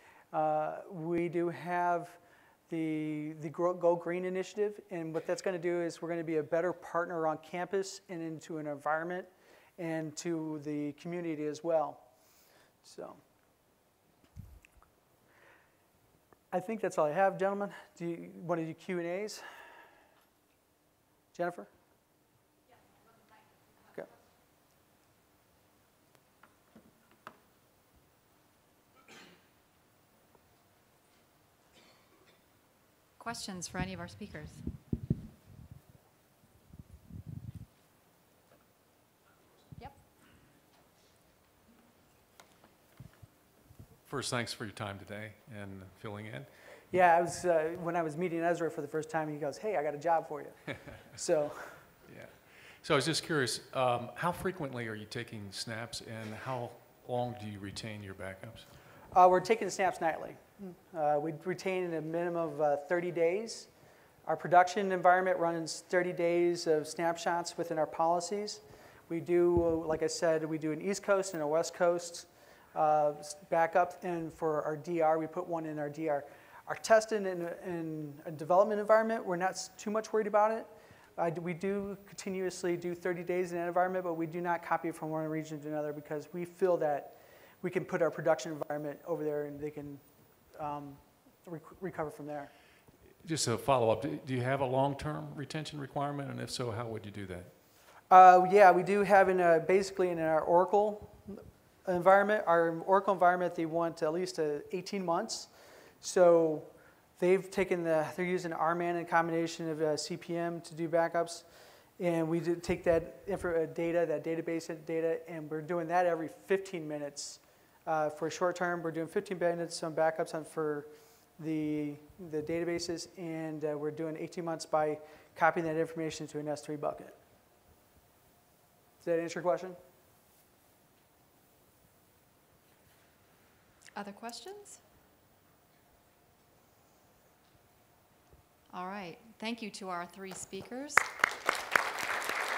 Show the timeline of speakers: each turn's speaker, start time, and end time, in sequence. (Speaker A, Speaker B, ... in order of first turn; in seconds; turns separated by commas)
Speaker A: 0.3-2.2, Speaker A: 2.7-12.0, Speaker A: 12.8-13.2, Speaker A: 16.5-19.4, Speaker A: 21.3-21.7, Speaker B: 33.2-34.6, Speaker C: 44.1-46.5, Speaker A: 46.9-51.8, Speaker C: 52.0-58.7, Speaker A: 59.1-63.7, Speaker A: 64.2-90.0, Speaker A: 90.6-92.5, Speaker C: 93.2-97.5, Speaker A: 98.1-105.5, Speaker A: 106.0-106.7, Speaker A: 107.2-111.4, Speaker A: 112.0-127.2, Speaker A: 129.0-129.8, Speaker B: 133.9-134.8, Speaker B: 138.7-141.1